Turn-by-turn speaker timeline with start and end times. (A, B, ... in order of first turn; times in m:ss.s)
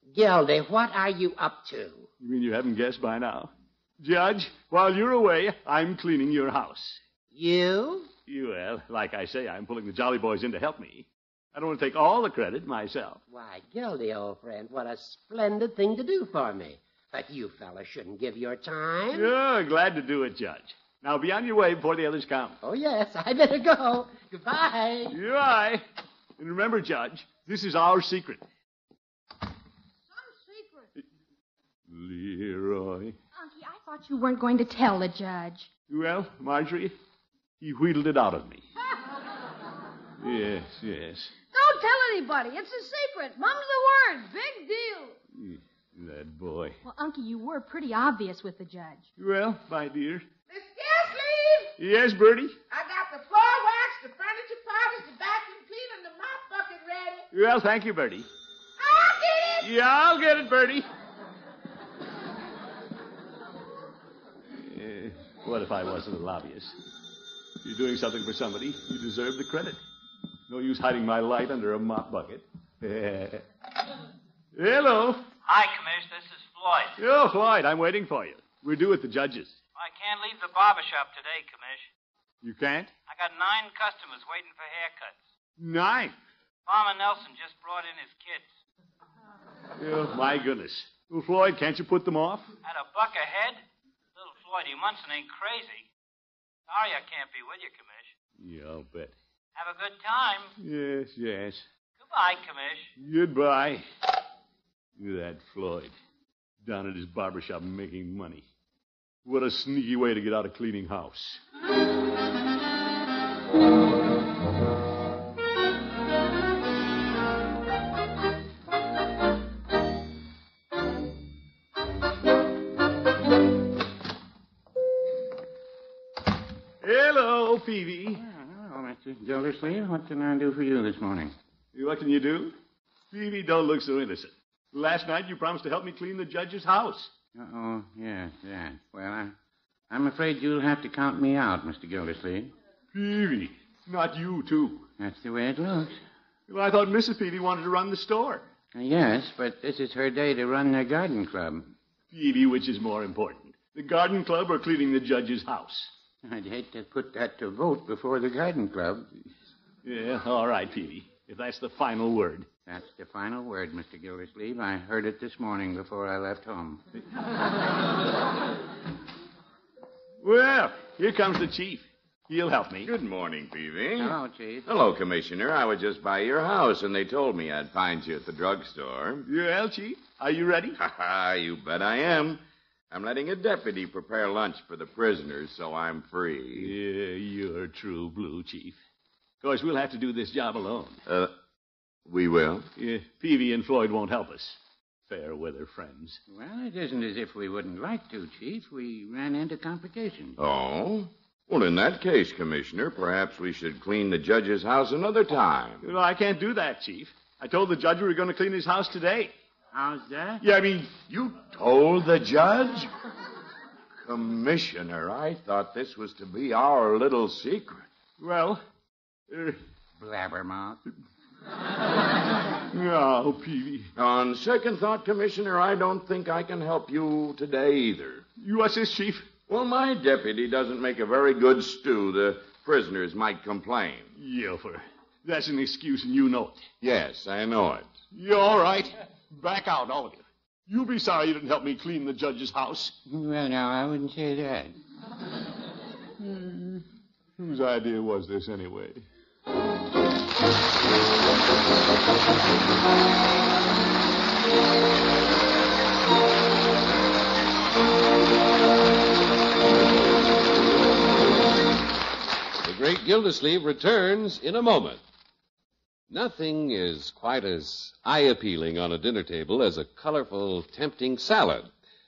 0:00.1-0:02.1 A
0:02.2-0:07.0 B
0:07.3-0:08.1 A
0:08.3-0:13.2 B
0:13.3-0:19.3 A
0:19.1-0:22.6 B
0:22.6-0:25.2 A
0:25.1-0:25.8 B
0:26.4-0:28.4 B
0:30.1-0:30.9 C
0:31.9-0:33.2 B
0:33.4-0:35.7 D
0:35.9-0:37.0 B
0:37.6-0:38.6 B
0:40.2-0:41.3 B
0:41.5-0:45.2 C
0:45.3-0:46.8 B
0:46.8-0:49.0 D
0:49.2-0:50.3 B
0:50.5-0:51.7 E
0:51.8-0:52.6 B
0:52.7-0:57.2 E
0:57.3-0:58.3 B
0:58.8-0:59.7 E
0:59.6-1:00.9 B
1:04.6-1:06.8 B
1:07.6-1:09.8 B
1:10.5-1:13.4 B
1:14.5-1:15.3 B
1:15.4-1:17.0 F
1:17.0-1:19.6 B
1:19.8-1:21.9 F
1:22.4-1:23.0 B
1:23.1-1:25.2 F
1:25.6-1:26.1 B
1:26.7-1:28.5 F
1:29.8-1:32.5 B
1:32.6-1:33.6 F
1:34.2-1:35.9 F
1:36.7-1:38.1 F
1:38.4-1:39.1 B
1:39.6-1:40.5 F
1:40.6-1:41.6 B
1:42.0-1:42.9 F
1:43.0-1:43.8 B
1:45.0-1:45.9 B
1:46.6-1:48.5 B
1:49.2-1:51.4 B
2:06.8-2:08.2 B
2:08.2-2:11.3 G
2:11.7-2:12.6 B
2:13.1-2:17.1 B
2:17.4-2:19.4 G
2:19.9-2:22.5 G
2:22.9-2:24.9 B
2:25.0-2:26.0 G
2:26.5-2:28.5 B
2:28.8-2:31.8 G
2:32.1-2:35.9 B
2:36.2-2:39.1 G
2:39.8-2:42.5 B
2:42.7-2:46.8 G
2:50.2-2:52.9 B
2:52.8-2:59.3 H
2:54.0-2:54.7 G
2:59.2-3:00.8 B
3:00.8-3:06.8 H
3:06.6-3:08.8 B
3:09.4-3:11.0 B
3:11.1-3:11.3 H
3:12.1-3:12.7 H
3:12.8-3:16.2 B
3:16.3-3:20.4 G
3:20.4-3:25.8 H
3:25.8-3:29.3 B
3:29.7-3:30.4 G
3:30.7-3:32.9 H
3:34.0-3:37.9 H
3:38.2-3:38.6 B
3:39.3-3:39.6 B
3:40.0-3:40.8 G
3:42.7-3:43.9 B
3:44.0-3:48.2 H
3:48.4-3:49.3 B
3:49.5-3:54.1 H
3:54.2-3:56.7 B
3:56.8-3:58.0 H
3:58.1-4:03.0 B
4:03.1-4:04.7 G
4:07.4-4:09.0 B
4:22.6-4:25.0 I
4:26.1-4:31.7 I